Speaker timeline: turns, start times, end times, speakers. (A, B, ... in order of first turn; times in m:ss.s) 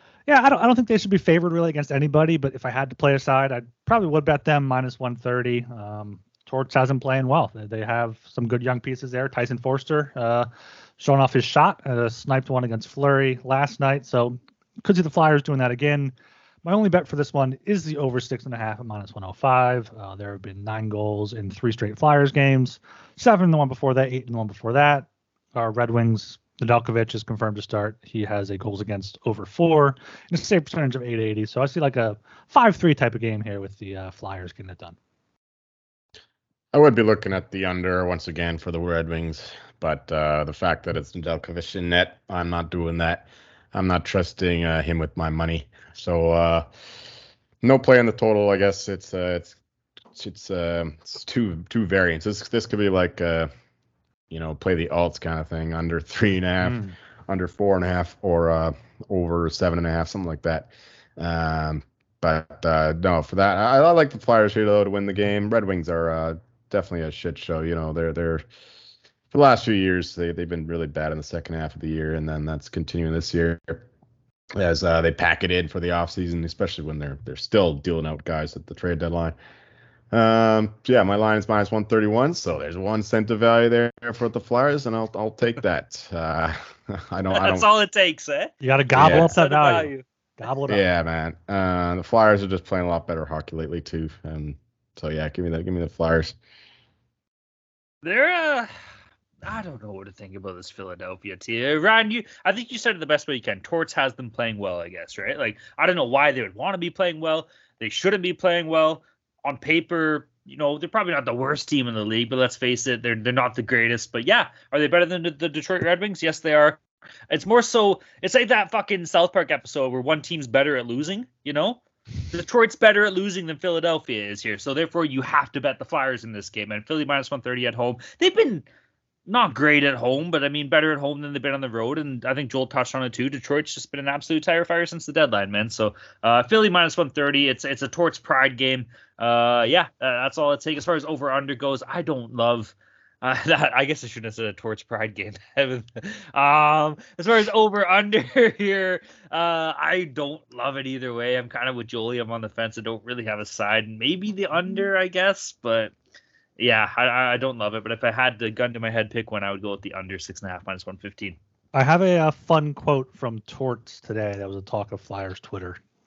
0:00.3-0:10.5 A
0:11.0-0:35.0 A
0:36.7-0:46.7 B
0:47.6-0:49.6 B
0:50.1-0:53.5 B
0:54.3-1:08.4 B
0:56.6-0:57.0 A
1:09.3-1:13.9 B
1:14.6-1:19.4 B
1:20.1-1:27.7 B
1:27.3-1:30.0 C
1:28.6-1:30.8 A
1:29.0-1:29.3 B
1:30.7-1:36.4 B
1:38.0-1:38.7 C
1:39.4-2:08.6 C
2:09.3-2:35.9 C
2:36.6-2:41.4 C
2:41.7-2:45.8 A